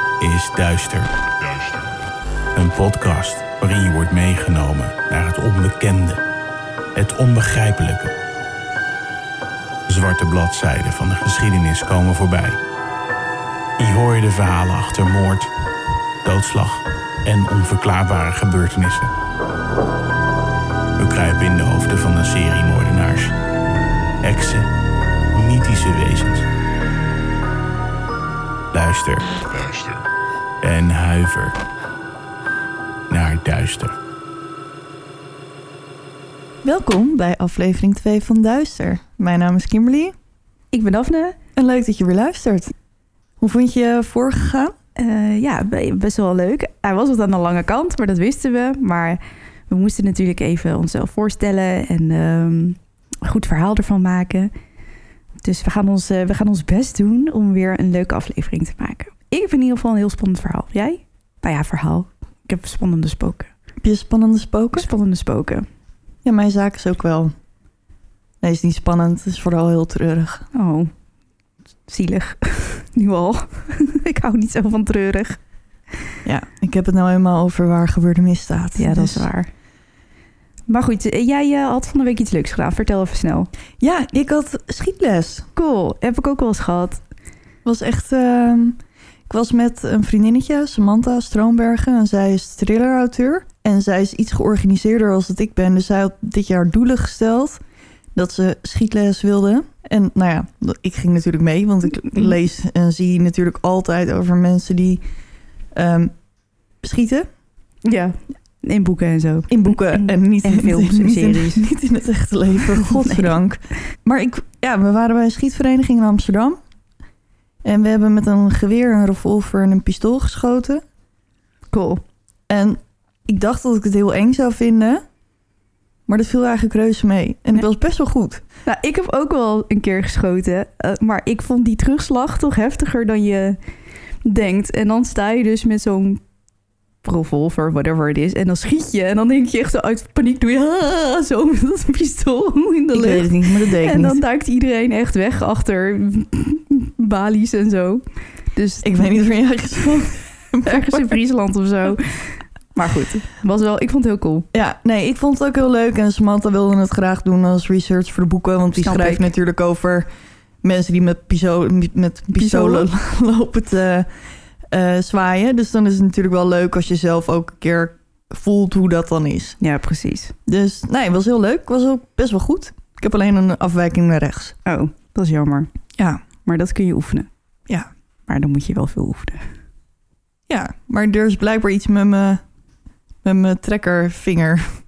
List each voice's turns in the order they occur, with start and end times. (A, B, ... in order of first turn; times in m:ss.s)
0:00.2-0:01.1 A
0:02.5-0:06.2 A
0:06.9-0:08.1 A
0:09.9-0:12.6 A
0:13.8-0:15.5 A
0:16.2-0:19.1 A
0:21.0-0:23.4 A
0:24.2-0:24.7 A
0:25.3-0:26.5 A
0:28.7-0:30.0 A
0:30.6-0:31.6 A
0:33.1-0:34.0 A
0:36.6-0:40.1 B
0:40.7-0:41.4 C
0:41.6-0:42.7 B
0:43.4-0:44.7 B
0:45.0-0:54.5 C
0:55.4-1:03.5 C
1:03.8-1:04.9 B
1:04.7-1:05.6 C
1:06.2-1:07.3 B
1:08.4-1:10.4 B
1:10.5-1:10.9 C
1:11.9-1:15.4 C
1:16.2-1:19.3 B
1:18.8-1:19.5 C
1:20.7-1:23.5 C
1:23.8-1:25.4 B
1:25.5-1:27.0 C
1:27.6-1:37.6 B
1:38.1-1:45.0 B
1:45.7-1:46.2 B
1:46.8-1:47.3 B
1:47.8-1:51.6 C
1:49.5-1:56.6 B
1:52.7-1:53.3 C
1:57.6-2:00.8 B
2:01.7-2:02.0 C
2:02.5-2:05.0 B
2:06.1-2:08.4 B
2:08.6-2:13.6 C
2:14.2-2:16.2 C
2:17.0-2:29.1 C
2:22.9-2:24.2 B
2:28.8-2:31.2 B
2:30.6-2:34.5 C
2:34.5-2:40.1 B
2:38.7-2:39.3 C
2:40.6-2:44.1 B
2:42.4-2:42.9 C
2:44.7-2:49.6 B
2:49.6-2:50.3 C
2:50.4-2:54.6 B
2:54.6-2:55.7 C
2:56.0-2:56.2 B
2:56.4-2:57.3 C
2:58.3-2:59.5 C
3:00.5-3:02.4 B
3:03.2-3:04.8 B